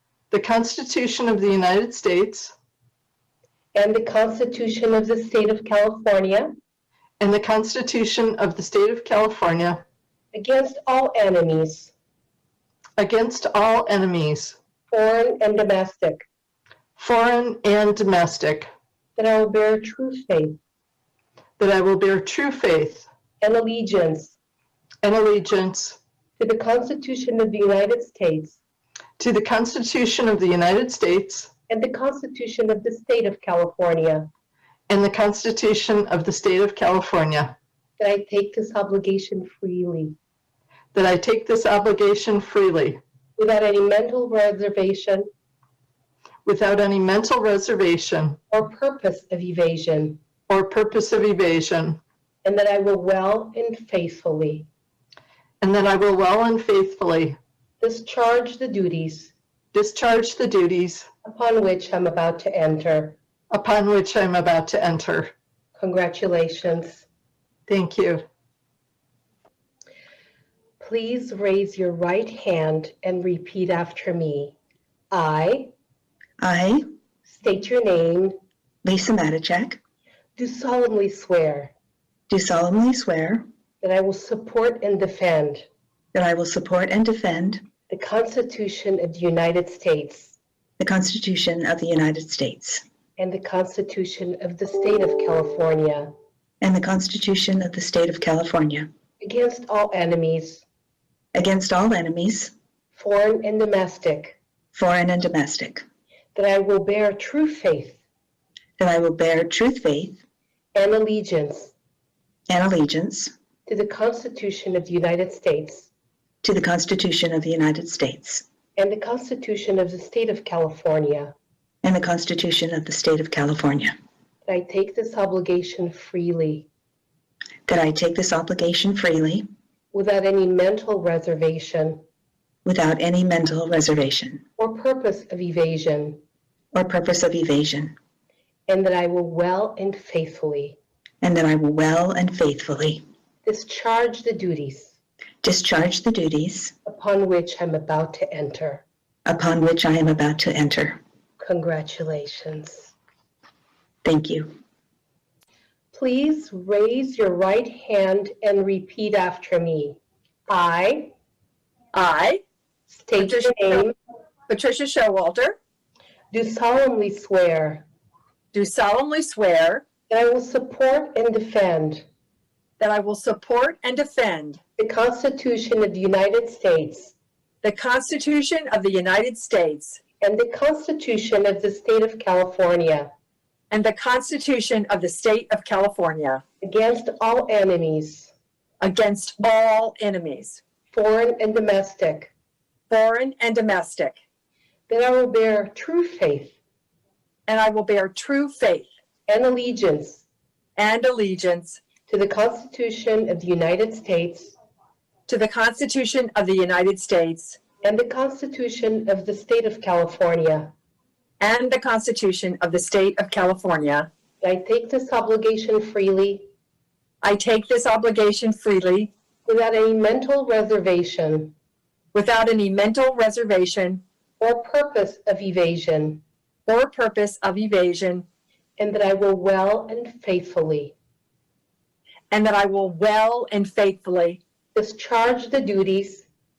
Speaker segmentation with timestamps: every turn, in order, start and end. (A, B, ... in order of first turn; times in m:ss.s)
0:00.3-0:02.5 A
0:03.8-0:06.5 B
0:07.2-0:09.8 A
0:10.3-0:11.9 B
0:13.0-0:14.6 A
0:14.9-0:16.2 B
0:17.0-0:18.7 A
0:19.2-0:20.6 B
0:21.6-0:23.1 A
0:23.4-0:24.4 B
0:25.0-0:26.0 A
0:26.4-0:28.6 B
0:29.2-0:31.5 A
0:31.7-0:34.3 B
0:34.9-0:37.6 A
0:38.0-0:40.2 B
0:40.9-0:43.0 A
0:43.4-0:45.3 B
0:46.4-0:48.4 A
0:48.5-0:50.2 B
0:50.5-0:52.0 A
0:52.4-0:54.7 B
0:55.6-0:57.4 A
0:57.8-0:59.3 B
0:59.7-1:01.1 A
1:01.2-1:03.2 B
1:03.5-1:05.3 A
1:05.8-1:07.0 B
1:07.7-1:08.3 A
1:10.8-1:14.6 B
1:15.1-1:15.7 B
1:16.4-1:16.8 C
1:17.3-1:18.4 B
1:18.8-1:19.8 C
1:20.4-1:21.7 B
1:22.3-1:23.5 C
1:23.8-1:25.7 B
1:26.1-1:27.6 C
1:27.9-1:30.4 B
1:30.8-1:32.8 C
1:33.2-1:36.1 B
1:36.6-1:38.9 C
1:39.2-1:40.6 B
1:41.3-1:42.5 C
1:42.9-1:44.4 B
1:44.7-1:45.8 C
1:46.4-1:48.0 B
1:48.8-1:50.2 C
1:50.8-1:51.7 B
1:52.5-1:53.3 C
1:53.7-1:55.9 B
1:56.4-1:58.4 C
1:58.8-2:01.3 B
2:01.8-2:04.0 C
2:04.5-2:06.7 B
2:07.7-2:09.5 C
2:09.9-2:12.0 B
2:12.6-2:14.4 C
2:14.6-2:16.2 B
2:16.7-2:18.0 C
2:18.7-2:20.8 B
2:21.2-2:23.0 C
2:23.4-2:25.0 B
2:25.4-2:26.7 C
2:26.8-2:28.8 B
2:29.3-2:31.0 C
2:31.4-2:32.9 B
2:34.0-2:34.6 C
2:35.9-2:41.2 B
2:41.9-2:42.4 D
2:42.9-2:44.0 B
2:43.2-2:43.8 D
2:44.5-2:45.6 D
2:46.3-2:47.9 B
2:48.5-2:49.9 D
2:50.1-2:52.0 B
2:52.8-2:54.6 D
2:54.8-2:57.2 B
2:57.6-3:00.0 D
3:00.2-3:03.1 B
3:03.7-3:06.4 D
3:06.6-3:08.3 B
3:08.8-3:10.6 D
3:10.9-3:12.3 B
3:12.9-3:14.2 D
3:14.9-3:16.6 B
3:17.5-3:18.9 D
3:19.3-3:20.2 B
3:20.8-3:21.8 D
3:22.1-3:24.5 B
3:25.3-3:27.6 D
3:27.8-3:30.7 B
3:31.4-3:34.1 D
3:34.4-3:36.5 B
3:37.2-3:39.1 D
3:39.5-3:41.5 B
3:42.1-3:44.0 D
3:44.4-3:46.2 B
3:46.7-3:48.3 D
3:48.8-3:51.0 B
3:52.3-3:54.4 D
3:54.8-3:56.3 B